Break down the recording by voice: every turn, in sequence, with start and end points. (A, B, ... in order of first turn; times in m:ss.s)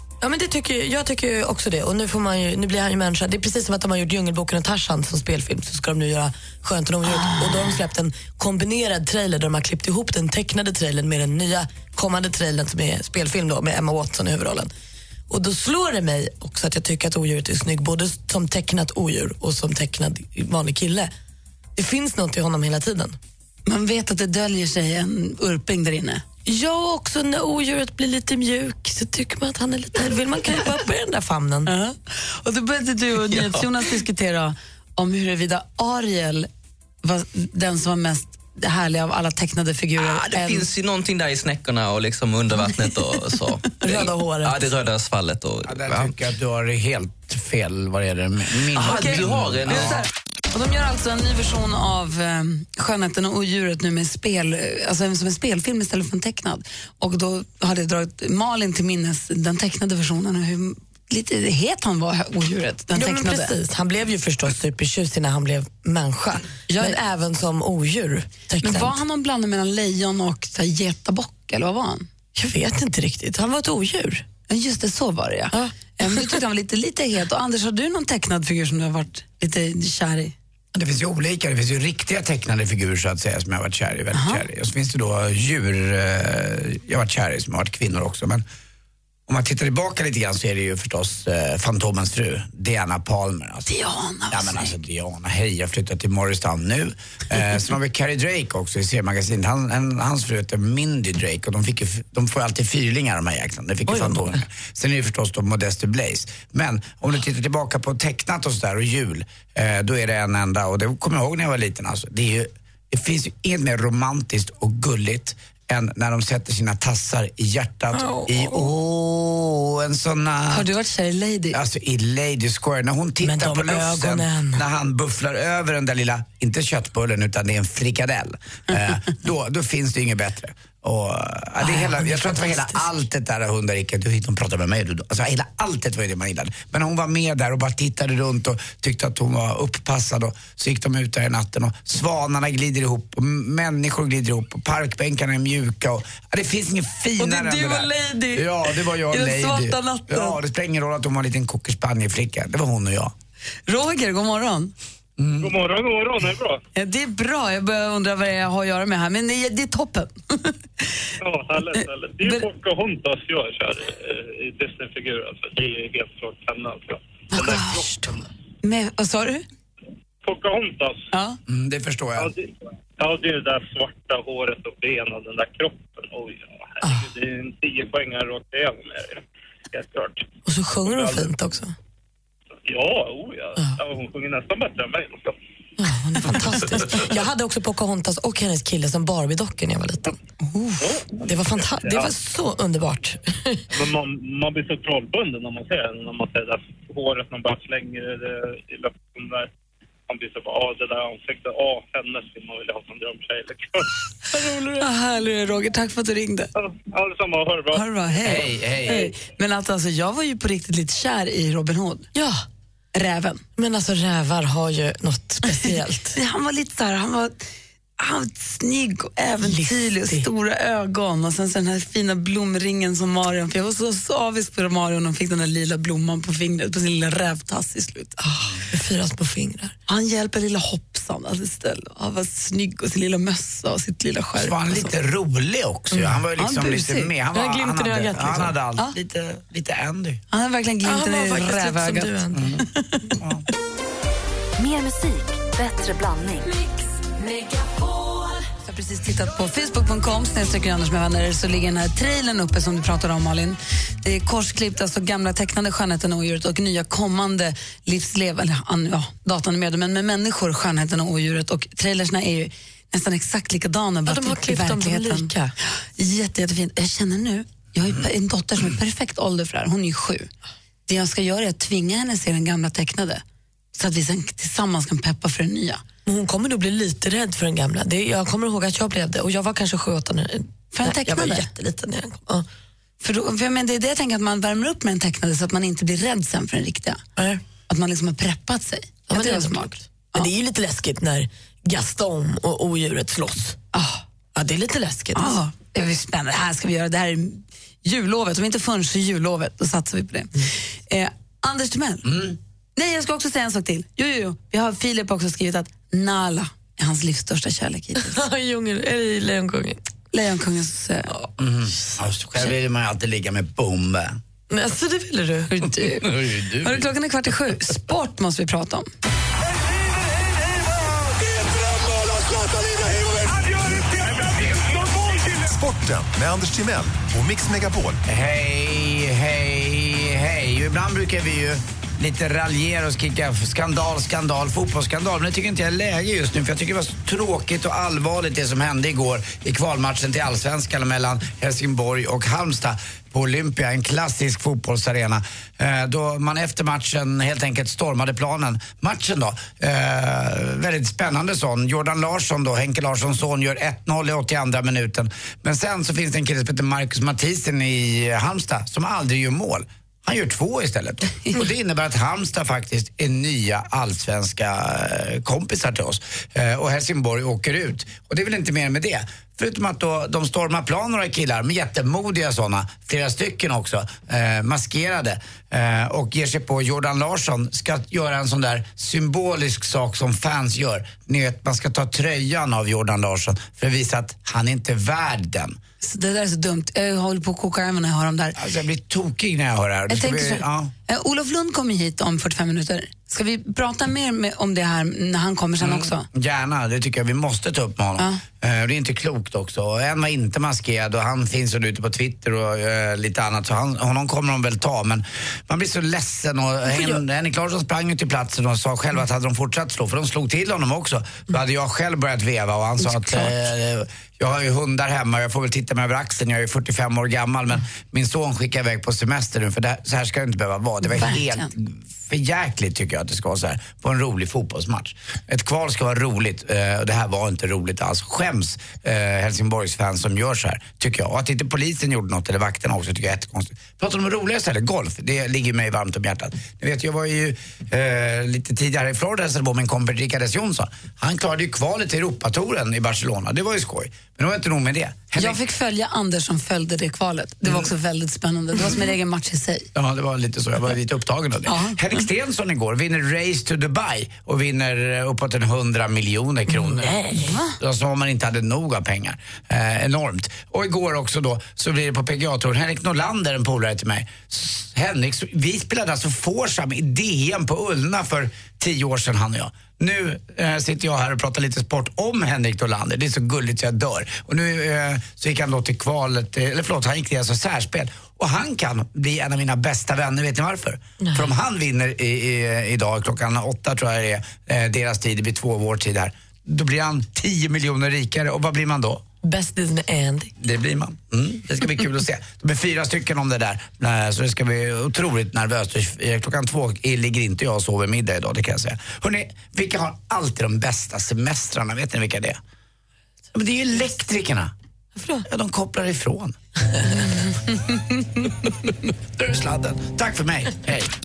0:00.2-0:14.7 A
0:15.3-0:21.1 A
0:21.8-0:23.2 A
0:23.7-0:26.2 B
0:26.4-0:31.7 A
0:31.7-0:36.5 B
0:37.0-0:40.7 B
0:40.0-0:46.1 C
0:43.8-0:44.6 A
0:45.6-0:49.9 D
0:48.8-0:50.0 C
0:48.8-1:03.5 B
1:02.9-1:09.0 A
1:06.7-1:07.0 B
1:08.6-1:12.1 B
1:12.4-1:14.2 A
1:14.5-1:20.3 B
1:15.5-1:16.4 A
1:20.7-1:28.4 D
1:24.1-1:24.4 B
1:29.3-1:33.7 D
1:33.7-1:34.7 B
1:34.3-2:00.7 D
1:57.9-1:58.7 A
2:00.5-2:01.6 B
2:01.5-2:33.1 D
2:03.2-2:04.6 A
2:12.2-2:12.5 A
2:27.2-2:28.5 B
2:29.0-2:30.4 B
2:33.7-2:34.7 B
2:35.2-2:35.6 D
2:35.4-2:36.6 E
2:36.7-2:40.9 B
2:41.2-2:47.9 E
2:47.3-2:49.4 B
2:50.2-2:51.1 E
2:51.5-2:52.3 D
2:52.2-3:00.3 E
3:00.4-3:01.7 A
3:00.8-3:01.4 E
3:02.6-3:05.3 E
3:05.8-3:10.2 A
3:10.4-3:10.8 B
3:10.8-3:12.1 E
3:11.2-3:13.6 A
3:13.7-3:19.5 E
3:20.1-3:24.9 E
3:24.8-3:26.5 B
3:26.6-3:28.4 E
3:27.7-3:32.1 B
3:28.2-3:29.1 D
3:32.1-3:32.4 A
3:32.9-3:33.4 B
3:33.6-3:36.2 A
3:35.7-3:37.4 B
3:38.0-3:48.5 B
3:39.4-3:40.3 A
3:48.7-3:49.7 A
3:49.9-3:54.9 B
3:54.4-4:00.2 D
3:55.9-3:56.2 A
3:56.4-3:57.1 B
3:57.3-3:58.5 A
4:00.3-4:02.1 B
4:00.8-4:02.4 A
4:02.3-4:03.4 D
4:02.6-4:03.1 B
4:04.6-4:06.6 F
4:08.6-4:25.3 B
4:24.0-4:25.5 A
4:26.0-4:30.3 B
4:30.9-4:33.2 B
4:33.7-4:35.8 B
4:36.0-4:42.4 A
4:40.7-4:41.5 B
4:43.0-4:47.0 B
4:47.2-4:47.4 A
4:47.7-4:50.3 B
4:49.1-4:53.6 A
4:53.7-4:54.0 B
4:54.4-4:55.4 A
4:55.1-5:00.3 B
5:00.9-5:02.1 B
5:02.0-5:02.4 D
5:02.8-5:08.2 B
5:08.1-5:09.8 A
5:10.1-5:11.1 B
5:11.4-5:14.2 D
5:14.5-5:15.7 A
5:15.5-5:18.8 B
5:16.0-5:16.9 D
5:22.3-5:28.0 G
5:28.1-6:25.6 D
6:25.8-6:28.4 B
6:28.4-6:30.7 D
6:29.9-6:36.0 B
6:35.6-7:25.4 D
6:46.7-6:47.0 A
6:52.8-6:53.3 B
7:00.9-7:01.5 B
7:25.2-7:29.7 B
7:27.4-7:27.7 D
7:29.7-8:09.0 D
7:31.5-7:32.0 B
7:36.5-7:37.3 A
7:37.2-7:37.6 B
8:01.0-8:01.3 A
8:09.2-8:10.3 A
8:10.4-8:22.4 D
8:23.3-8:24.5 D
8:25.0-8:25.2 A
8:25.2-8:26.4 D
8:29.2-8:30.9 D